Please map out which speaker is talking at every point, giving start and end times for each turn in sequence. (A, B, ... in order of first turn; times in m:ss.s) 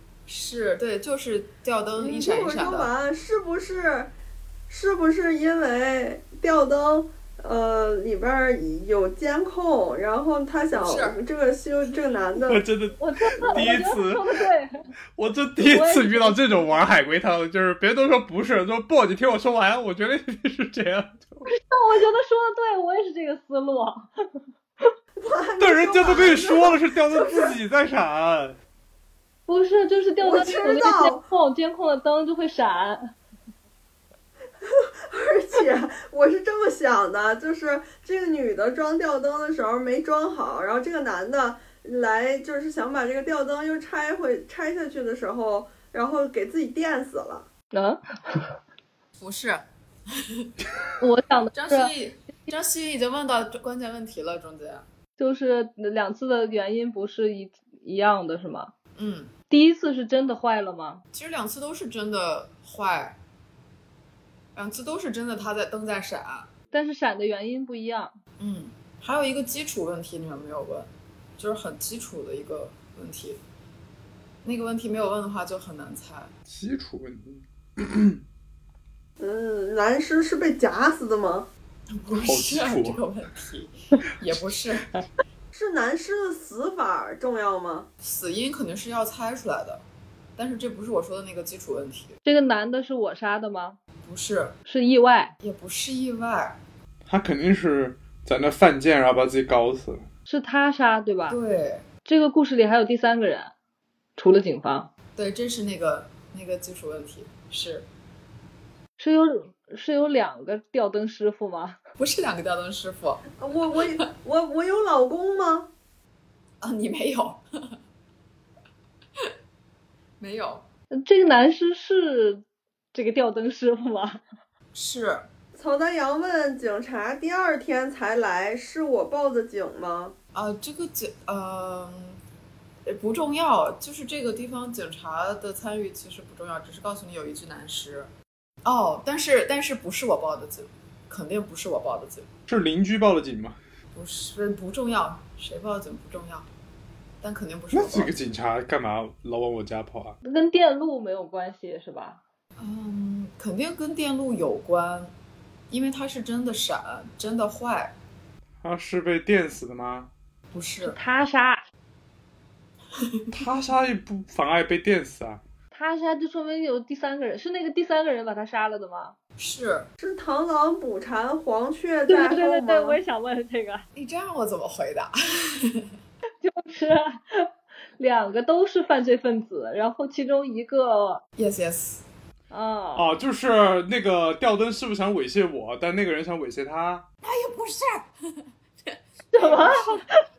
0:00.3-0:02.9 A
0:02.0-0:04.1 B
0:04.7-0:12.6 B
0:10.7-0:11.2 A
0:12.4-0:14.4 C
0:13.0-0:14.8 D
0:15.2-0:21.5 C
0:15.6-0:16.4 D
0:21.5-0:24.1 D
0:25.2-0:27.6 B
0:25.6-0:28.6 C
0:29.5-0:33.1 D
0:30.2-0:31.2 B
0:34.6-0:47.5 B
0:47.7-0:48.6 D
0:49.2-0:50.5 A
0:51.0-0:51.9 D
0:51.5-0:54.9 A
0:55.2-0:58.7 D
0:59.0-0:59.3 A
0:59.5-1:01.0 D
1:01.1-1:03.2 A
1:04.6-1:06.5 A
1:06.7-1:08.2 D
1:08.4-1:13.4 A
1:14.4-1:16.3 A
1:16.5-1:18.2 C
1:19.2-1:21.5 B
1:21.9-1:24.9 A
1:22.1-1:23.0 C
1:25.5-1:27.9 B
1:28.0-1:29.8 A
1:30.4-1:32.2 A
1:32.2-1:33.8 D
1:34.0-1:34.6 A
1:34.7-1:35.4 D
1:35.4-1:36.6 A
1:37.1-1:40.1 C
1:40.3-1:41.4 D
1:41.3-1:41.9 A
1:42.0-1:43.5 D
1:44.2-1:44.9 D
1:45.2-1:47.9 A
1:49.0-1:51.8 D
1:52.0-1:53.3 A
1:53.4-1:55.7 B
1:56.6-1:57.8 A
2:00.2-2:00.7 A
2:00.9-2:02.4 D
2:02.9-2:04.2 D
2:04.7-2:05.3 A
2:05.6-2:10.2 B
2:10.3-2:12.2 A
2:12.9-2:18.1 A
2:18.6-2:22.3 A
2:22.5-2:23.6 C
2:23.9-2:26.5 A
2:27.2-2:28.1 A
2:27.7-2:30.2 C
2:30.2-2:32.2 D
2:32.6-2:35.1 A
2:35.7-2:38.0 A
2:38.6-2:40.1 C
2:40.5-2:41.0 A
2:40.8-2:41.6 D
2:43.3-2:45.4 C
2:45.7-2:49.2 D
2:49.4-2:49.9 A
2:50.0-2:53.0 B
2:52.1-2:53.9 D
2:54.0-2:55.9 A
2:56.4-3:01.2 D
3:01.4-3:02.0 A
3:02.5-3:03.1 D
3:03.0-3:07.1 C
3:07.2-3:10.0 A
3:09.3-3:10.0 D